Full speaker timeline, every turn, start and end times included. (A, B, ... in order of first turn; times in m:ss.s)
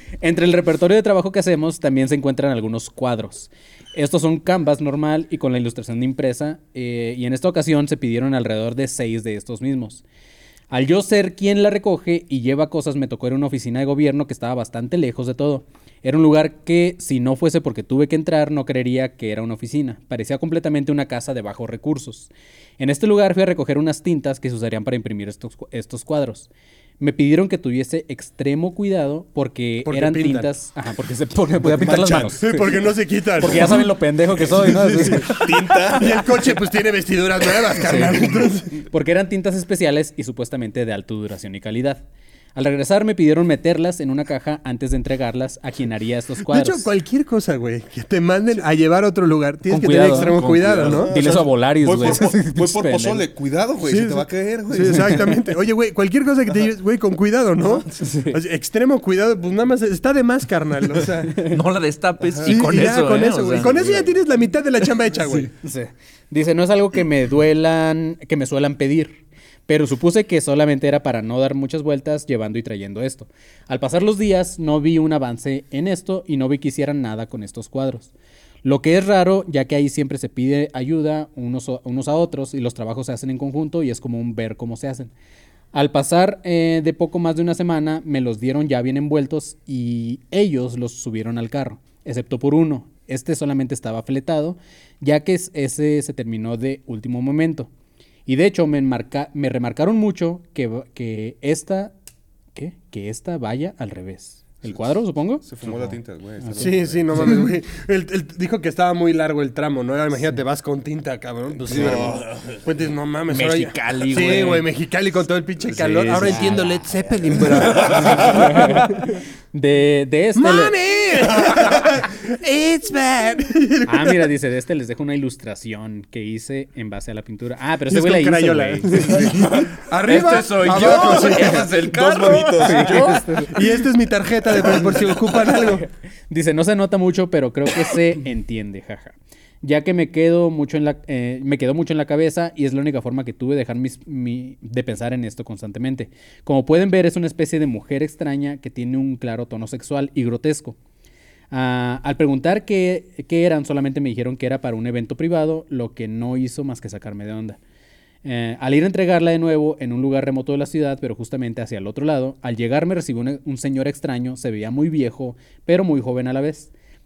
0:00.2-0:10.0 A
0:10.7-0:26.5 A
0:27.0-0:32.8 A
0:29.8-0:30.5 B
0:31.6-0:33.9 B
0:33.4-0:35.5 A
0:34.5-0:38.7 B
0:35.1-0:36.5 C
0:37.8-0:42.0 A
0:42.5-0:46.8 A
0:46.4-0:51.2 B
0:49.7-0:50.4 A
0:50.3-0:51.1 D
0:50.6-0:55.2 C
0:51.1-0:53.3 A
0:53.8-1:01.5 B
0:57.9-0:58.4 A
1:01.4-1:04.0 D
1:02.4-1:05.5 B
1:05.6-1:18.1 A
1:18.6-1:25.1 A
1:25.7-1:37.7 A
1:38.3-1:41.9 A
1:42.5-1:46.7 A
1:45.4-1:47.3 C
1:46.6-1:59.1 B
1:51.7-1:52.6 C
1:53.3-1:54.6 D
1:54.1-1:54.6 A
1:55.8-1:57.4 A
1:57.9-2:00.7 A
2:00.3-2:04.3 B
2:03.8-2:09.2 A
2:07.9-2:11.8 B
2:09.3-2:13.0 D
2:10.9-2:13.2 C
2:12.6-2:15.9 B
2:12.6-2:13.6 A
2:16.3-2:30.8 A
2:31.5-2:37.6 A
2:38.2-2:46.7 A